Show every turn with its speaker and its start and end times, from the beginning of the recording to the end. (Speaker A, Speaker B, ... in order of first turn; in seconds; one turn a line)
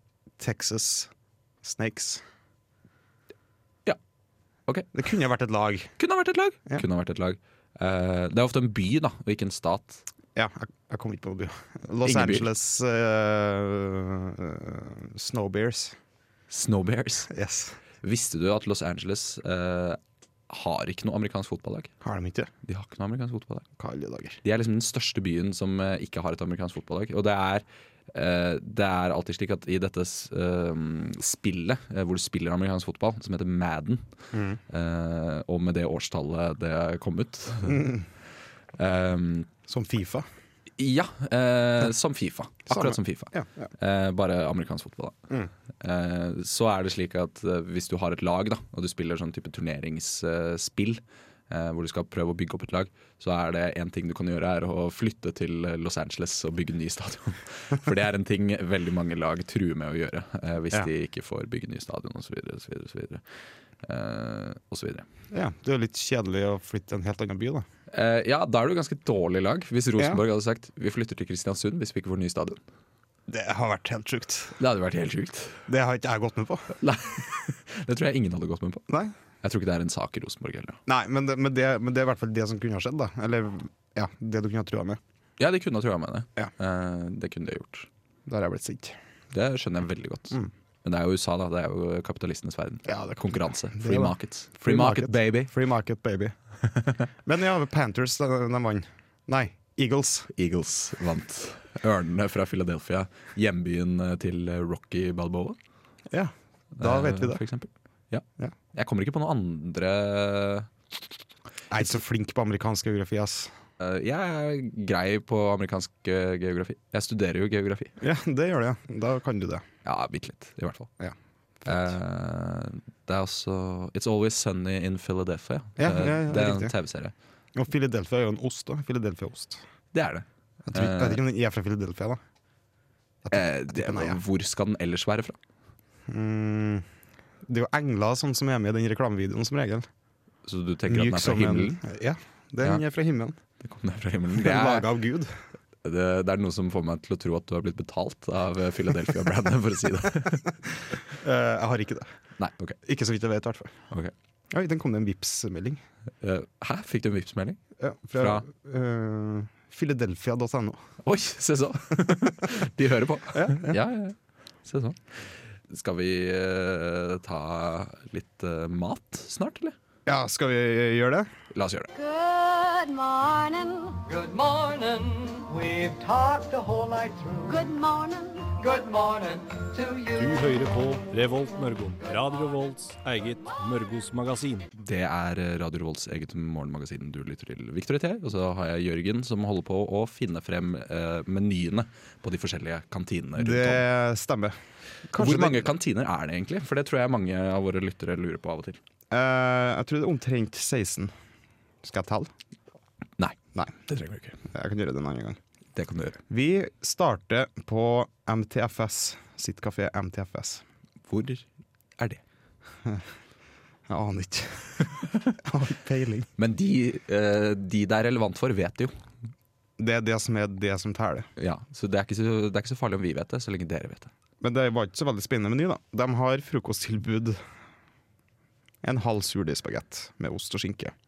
Speaker A: 0.4-1.1
Speaker A: 1.6-2.2
Speaker A: 4.9-5.9
Speaker B: 6.0-10.0
Speaker A: 10.3-16.0
Speaker B: 12.0-12.5
Speaker B: 16.5-17.3
Speaker A: 17.3-17.8
Speaker B: 18.0-21.9
Speaker A: 22.0-22.5
Speaker B: 22.6-23.6
Speaker A: 23.8-24.4
Speaker B: 24.4-34.0
Speaker A: 34.3-34.6
Speaker B: 34.7-38.0
Speaker A: 37.6-38.0
Speaker B: 38.8-39.5
Speaker A: 39.7-40.3
Speaker B: 40.8-45.2
Speaker A: 42.7-43.7
Speaker B: 45.8-63.2
Speaker B: 63.8-65.1
Speaker A: 65.3-67.6
Speaker B: 67.9-72.6
Speaker A: 73.3-74.5
Speaker B: 74.5-75.6
Speaker A: 75.7-76.7
Speaker B: 76.8-78.8
Speaker B: 79.4-80.8
Speaker A: 80.9-85.0
Speaker B: 85.4-87.9
Speaker A: 88.2-89.0
Speaker B: 89.3-95.5
Speaker A: 92.8-96.3
Speaker B: 96.8-97.0
Speaker A: 97.2-100.3
Speaker B: 100.3-105.6
Speaker A: 106.1-107.4
Speaker B: 106.8-110.7
Speaker A: 111.7-113.5
Speaker B: 113.8-118.0
Speaker A: 118.0-119.6
Speaker B: 119.8-120.9
Speaker A: 121.0-121.9
Speaker B: 121.7-127.1
Speaker A: 125.8-126.7
Speaker A: 127.5-129.6
Speaker B: 129.9-131.2
Speaker A: 130.7-132.2
Speaker A: 133.2-134.2
Speaker B: 133.3-135.4
Speaker A: 136.1-136.8
Speaker A: 137.4-139.9
Speaker B: 140.4-141.8
Speaker A: 140.9-143.3
Speaker B: 143.6-144.9
Speaker A: 144.3-145.3
Speaker B: 145.8-150.5
Speaker A: 151.2-152.1
Speaker B: 152.4-152.8
Speaker A: 152.8-153.8
Speaker A: 154.5-155.8
Speaker B: 156.2-157.6
Speaker A: 157.8-160.8
Speaker B: 158.2-158.4
Speaker B: 161.0-165.0
Speaker A: 163.3-163.8
Speaker B: 165.7-169.7
Speaker A: 170.1-171.3
Speaker B: 171.5-171.9
Speaker C: 171.9-174.0
Speaker D: 174.0-177.5
Speaker C: 177.5-178.6
Speaker D: 178.6-180.3
Speaker E: 180.1-184.7
Speaker B: 184.8-193.8
Speaker A: 193.4-194.6
Speaker A: 195.1-195.7
Speaker B: 195.2-198.8
Speaker A: 199.1-201.1
Speaker A: 201.8-202.3
Speaker B: 203.2-204.4
Speaker A: 204.5-205.4
Speaker B: 205.8-206.2
Speaker A: 206.3-210.6
Speaker B: 211.1-211.4
Speaker A: 213.9-216.3
Speaker B: 216.4-218.9
Speaker A: 219.8-221.3
Speaker B: 221.4-224.1
Speaker A: 224.4-227.4
Speaker A: 228.8-230.9